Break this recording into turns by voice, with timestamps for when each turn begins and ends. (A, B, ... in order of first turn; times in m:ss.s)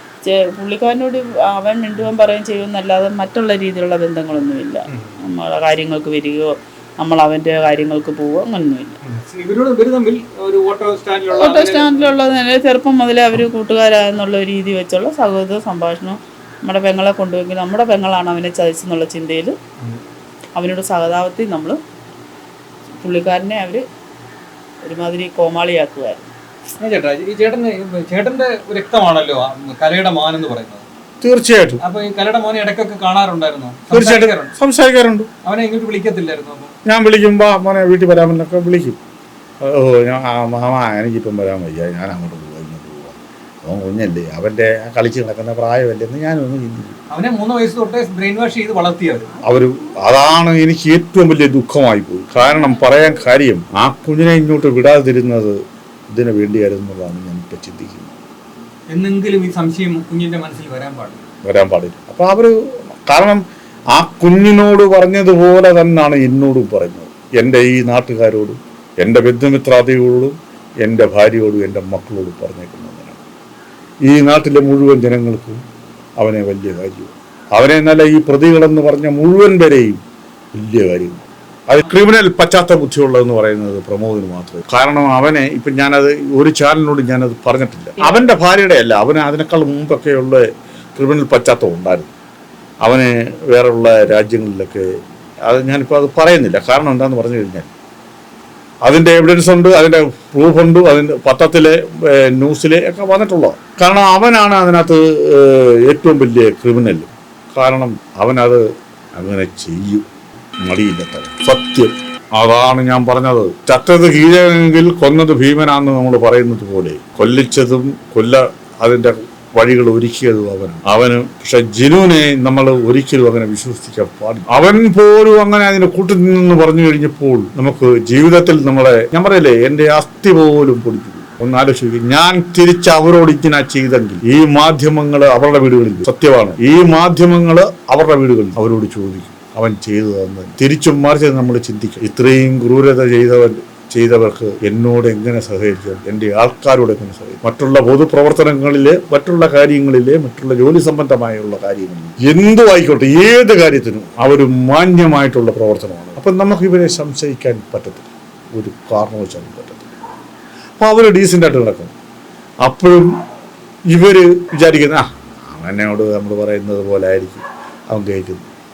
0:00.2-0:09.0 A
0:04.9-0:05.2 B
0:09.0-0:12.1 B
0:11.3-0:19.6 A
0:20.6-0:21.8 A
0:23.0-0:23.8 A
0:24.8-0:26.3 A
0:26.8-0:30.8 B
0:31.2-0:31.8 C
0:31.8-0:34.5 B
0:33.9-0:35.3 C
0:35.4-0:36.7 B
0:36.8-0:39.0 C
0:39.6-0:47.0 C
0:47.1-0:49.3 B
0:49.4-0:58.1 C
0:58.9-1:01.2 B
1:01.4-1:03.4 C
1:03.9-1:13.2 C
1:14.0-1:15.6 C
1:16.2-1:20.0 C
1:20.5-1:32.1 C
1:32.8-1:37.7 C
1:38.8-1:48.6 C
1:49.1-1:50.0 C
1:50.6-2:39.8 C
2:40.8-2:41.9 C
2:42.6-2:43.1 C
2:43.9-2:48.5 C